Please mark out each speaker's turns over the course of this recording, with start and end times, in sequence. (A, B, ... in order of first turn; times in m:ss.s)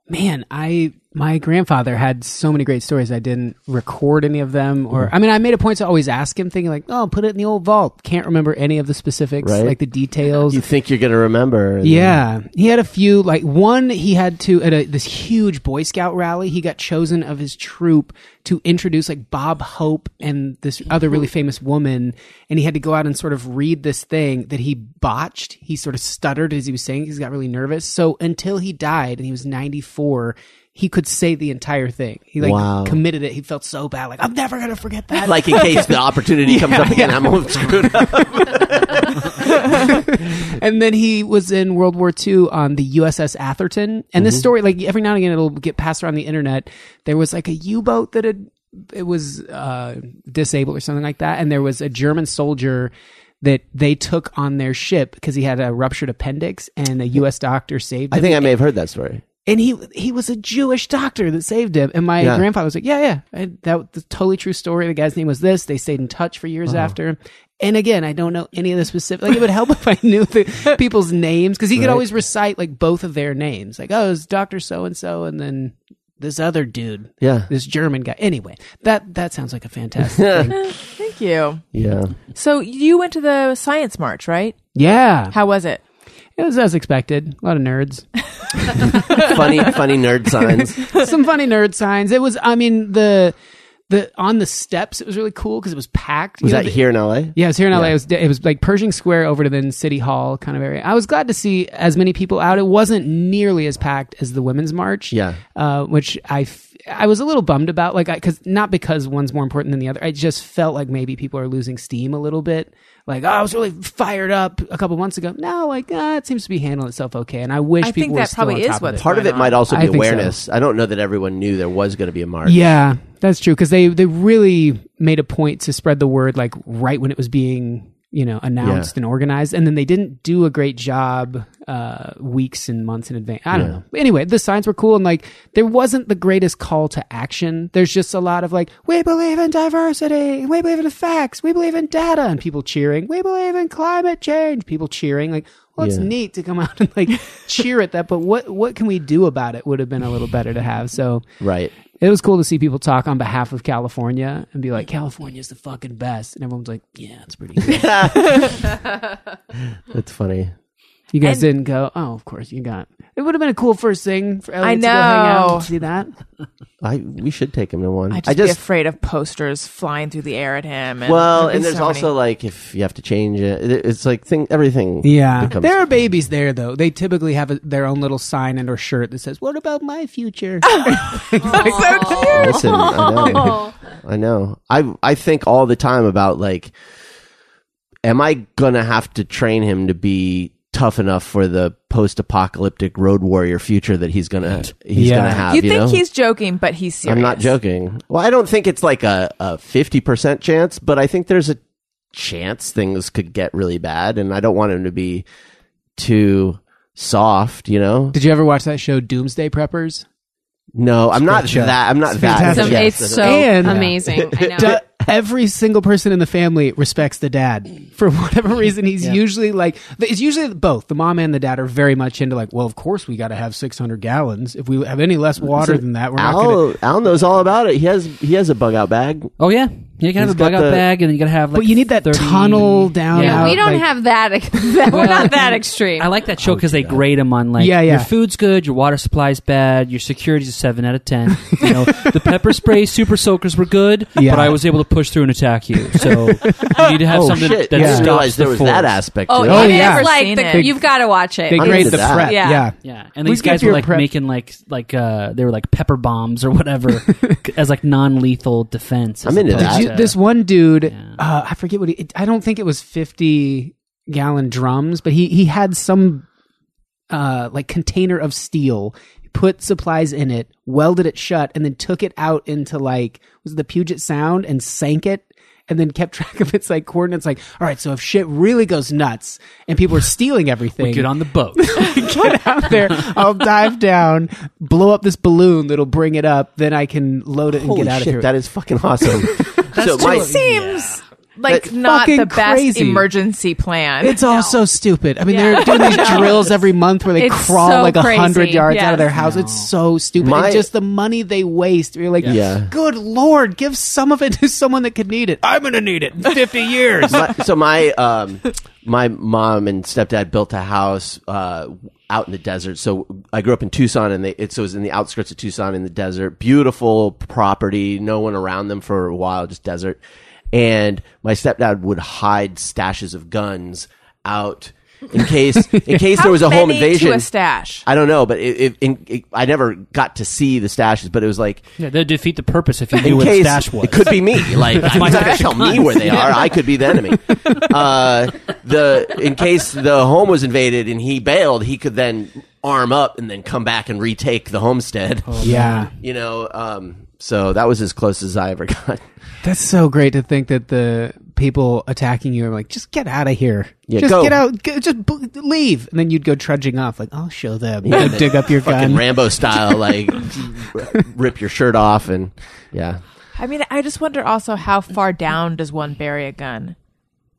0:00.1-0:10.6 A
0:09.4-0:09.8 B
0:10.5-0:12.2 B
0:11.8-0:58.5 A
0:32.4-0:33.0 B
0:35.2-0:39.9 B
0:58.1-0:59.2 B
0:59.5-1:20.6 A
1:11.8-1:12.0 B
1:17.2-1:17.5 B
1:20.2-1:20.7 B
1:20.5-1:21.6 C
1:21.7-1:22.2 B
1:22.3-1:24.6 C
1:24.8-1:25.4 A
1:25.3-1:25.8 C
1:26.4-1:28.1 A
1:28.7-1:29.2 A
1:28.8-1:30.9 B
1:30.4-1:33.4 A
1:33.9-1:36.8 A
1:36.4-1:37.9 B
1:37.3-1:59.1 A
1:45.1-1:45.4 B
1:57.8-1:59.7 C
1:59.0-2:02.7 B
1:59.7-2:00.4 A
2:02.4-2:31.2 A
2:08.6-2:08.9 B
2:13.5-2:13.8 B
2:25.8-2:26.1 B
2:31.4-2:31.7 B
2:32.0-2:38.5 A
2:37.6-2:38.7 B
2:39.9-2:40.5 B
2:41.1-2:46.1 A
2:41.2-2:41.5 C
2:44.6-2:45.7 C
2:46.8-2:48.6 B
2:48.1-2:52.1 C
2:51.0-2:55.8 B
2:55.0-3:02.7 A
3:00.7-3:03.2 C
3:01.5-3:03.7 D
3:02.3-3:06.8 B
3:08.0-3:16.0 B
3:14.9-3:15.5 A
3:15.5-3:17.5 C
3:17.0-3:21.6 B
3:22.1-3:25.2 B
3:26.0-3:28.2 B
3:28.1-3:30.1 A
3:30.8-3:34.8 B
3:31.1-3:46.6 A
3:32.3-3:34.8 D
3:45.6-3:49.3 B
3:49.4-3:53.6 E
3:50.2-3:50.8 B
3:51.5-3:53.9 A
3:53.2-3:56.1 D
3:54.9-4:09.0 E
3:56.4-3:57.0 B
3:57.6-3:58.1 A
4:04.2-4:04.6 A
4:05.9-4:06.8 A
4:07.1-4:09.9 B
4:07.5-4:08.2 A
4:09.3-4:12.7 D
4:09.4-4:10.8 A
4:09.6-4:10.7 C
4:11.5-4:14.1 A
4:11.6-4:12.4 B
4:12.8-4:20.2 E
4:19.2-4:19.9 B
4:19.5-4:26.3 A
4:20.9-4:21.2 E
4:27.1-4:48.3 A
4:40.8-4:42.0 E
4:47.5-4:50.4 B
4:49.7-4:51.0 E
4:50.0-4:54.2 C
4:51.5-4:53.1 A
4:54.0-5:07.3 A
4:55.3-4:56.5 D
4:55.8-4:56.2 C
4:57.2-4:59.1 D
4:59.1-4:59.7 E
5:00.2-5:00.7 B
5:02.2-5:02.7 B
5:07.1-5:20.0 B
5:20.5-5:27.3 B
5:26.0-5:27.8 C
5:27.9-5:31.6 B
5:31.8-5:36.6 E
5:33.0-5:49.0 B
5:37.3-5:37.6 A
5:45.3-5:45.9 E
5:45.4-5:45.9 A
5:49.4-6:00.0 A
5:53.9-5:54.4 B
5:57.8-6:03.0 B
6:00.8-6:01.0 A
6:03.4-6:06.8 C